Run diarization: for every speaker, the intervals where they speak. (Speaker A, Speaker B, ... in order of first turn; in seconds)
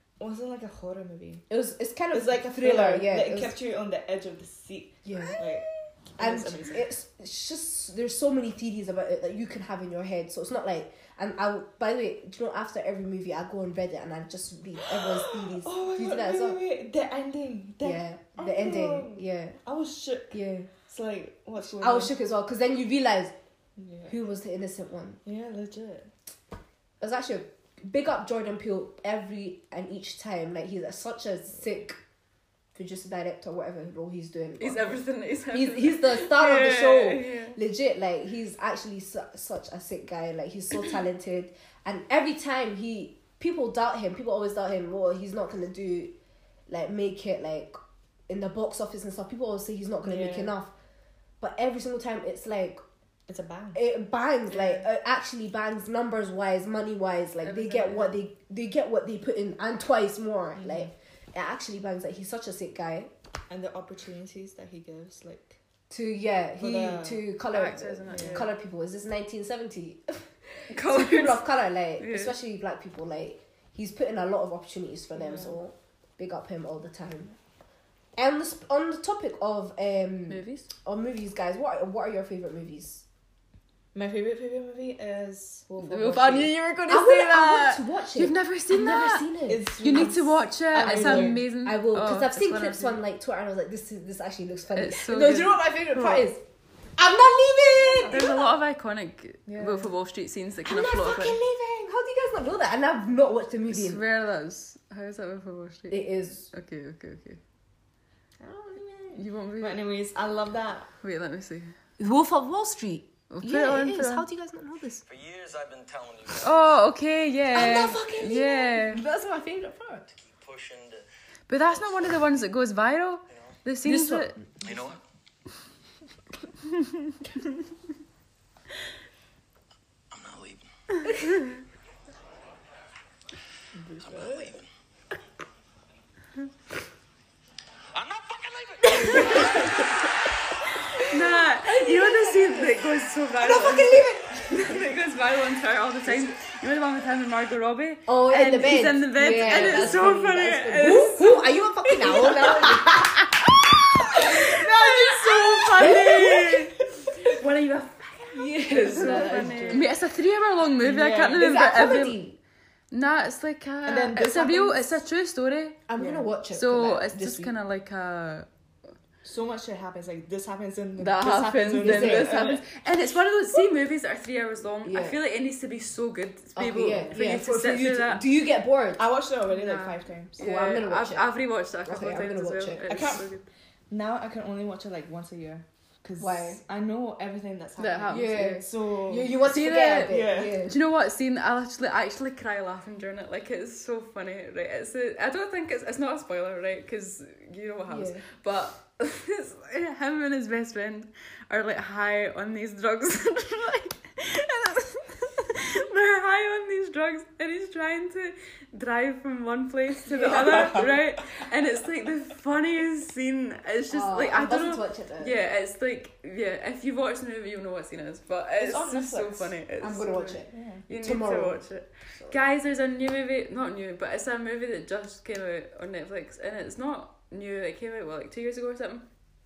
Speaker A: 0.2-1.4, 2.1-6.9, 14.9-22.1, 23.8-24.1, 25.2-26.1, 50.0-50.5, 53.3-53.8, 60.6-60.9, 63.5-65.6, 66.6-67.3, 68.1-68.5, 75.2-75.6, 83.9-86.5, 89.5-91.4, 97.8-98.4, 99.5-99.9, 108.7-110.9, 133.8-134.5, 149.3-150.0, 155.0-156.6, 158.7-159.9, 160.8-161.5, 163.9-165.0, 169.2-172.6, 179.0-180.4, 182.9-183.3, 183.9-189.4, 190.1-190.6, 210.2-210.9, 218.6-219.5, 220.5-220.8
Speaker B: 1.5-3.5, 5.1-5.5, 6.2-16.6, 17.8-19.6, 20.3-20.7, 21.7-23.3, 24.1-25.2, 27.0-32.0, 32.8-35.0, 35.5-46.1, 46.7-47.8, 48.3-50.7, 51.4-52.8, 53.8-63.1, 65.9-77.4, 78.2-83.0, 86.9-90.1, 90.8-96.4, 97.0-98.4, 100.7-104.0, 105.9-106.5, 108.4-108.8, 112.0-115.0, 117.5-120.1, 123.8-124.5, 139.1-139.5, 141.7-142.8, 143.4-144.5, 148.1-153.5, 154.0-155.1, 155.7-156.6, 158.3-159.9, 161.4-162.4, 165.9-167.5, 171.8-172.5, 174.8-175.2, 176.6-179.0, 180.4-181.3, 181.9-182.8, 186.2-186.6, 188.1-190.8, 197.9-198.2, 210.3-210.7, 213.9-215.3, 219.8-221.6
Speaker C: 34.6-37.6, 57.4-58.2, 67.5-68.5, 70.7-71.5, 72.0-72.3, 80.3-80.7, 85.8-89.3, 89.8-93.0, 94.8-96.3, 98.0-101.4, 103.7-107.4, 109.1-109.8, 111.0-111.7, 113.3-114.3, 116.4-119.0, 121.5-124.4, 139.1-139.7, 141.0-152.9, 154.1-162.2, 162.9-165.9, 166.5-168.5, 171.0-178.2, 179.5-183.4, 187.8-188.6, 189.4-229.1
Speaker D: 115.1-116.5, 120.2-121.0, 121.7-122.1, 123.3-123.5, 124.6-125.0, 130.1-131.1, 134.0-134.7, 137.9-139.8